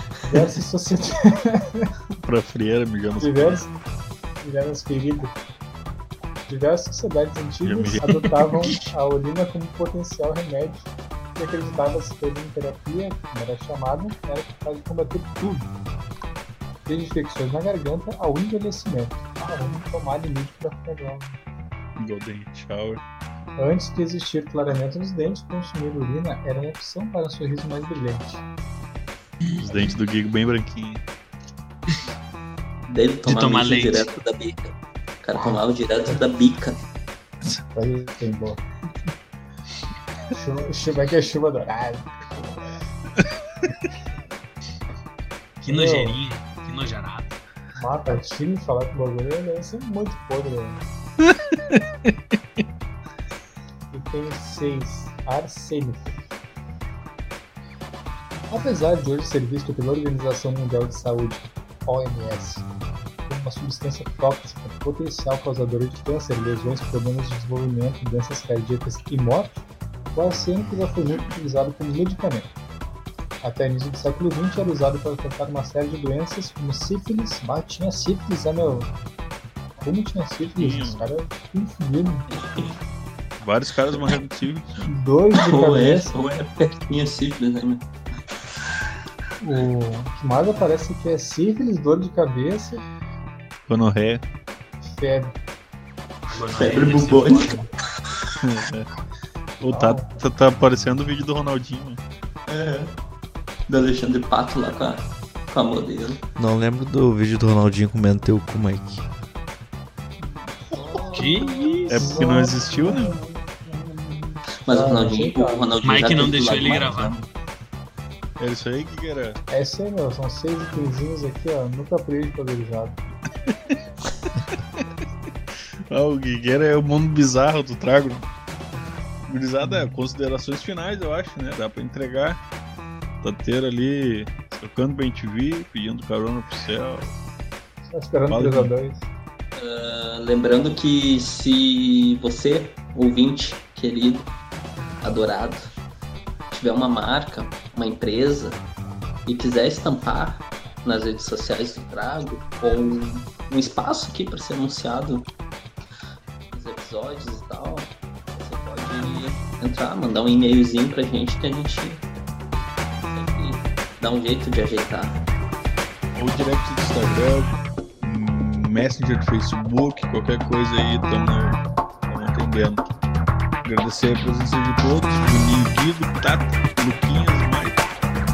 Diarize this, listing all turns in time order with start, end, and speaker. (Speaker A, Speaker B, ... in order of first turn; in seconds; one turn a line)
Speaker A: 0.2-1.9
Speaker B: 2.2-3.6
Speaker A: 3.2-3.7
Speaker A: 4.4-5.3
Speaker A: 6.5-15.7
Speaker B: 7.6-8.3
Speaker A: 16.9-21.4
Speaker B: 22.0-23.0
Speaker A: 23.6-28.4
Speaker B: 29.6-31.0
Speaker C: 32.9-36.8
Speaker D: 33.2-34.1
Speaker A: 35.4-36.2
Speaker A: 37.7-38.6
Speaker A: 40.3-42.8
Speaker A: 45.6-46.2
Speaker D: 45.6-47.4
Speaker A: 47.8-50.8
Speaker B: 51.2-52.1
Speaker A: 53.9-56.2
Speaker A: 58.5-62.6
Speaker A: 63.2-69.6
Speaker A: 70.1-72.5
Speaker A: 73.4-78.9
Speaker A: 79.8-82.3
Speaker B: 80.5-81.1
Speaker C: 82.3-82.7
Speaker B: 83.4-84.9
Speaker A: 84.8-86.2
Speaker C: 85.4-87.8
Speaker A: 89.4-92.8
Speaker B: 93.7-94.2
Speaker A: 94.8-95.3
Speaker D: 96.3-97.7
Speaker C: 96.5-97.7
Speaker B: 98.4-98.9
Speaker B: 99.6-102.0
Speaker A: 99.7-100.1
Speaker C: 102.5-102.9
Speaker C: 103.7-106.2
Speaker E: 106.4-109.0
Speaker A: 110.2-116.3
Speaker C: 110.7-112.2
Speaker D: 111.1-112.0
Speaker B: 111.9-113.2
Speaker C: 114.7-117.2
Speaker D: 115.8-117.2
Speaker B: 118.4-119.4
Speaker A: 119.5-123.0
Speaker B: 123.5-123.7
Speaker B: 125.9-128.3
Speaker B: 129.3-132.4
Speaker B: 133.2-137.1
Speaker A: 137.9-139.1
Speaker B: 138.3-138.7
Speaker C: 139.6-144.3
Speaker C: 145.0-145.7
Speaker C: 146.5-148.6
Speaker C: 149.2-155.3
Speaker C: 156.5-162.0
Speaker C: 163.0-165.2
Speaker B: 166.1-172.9
Speaker B: 173.6-177.8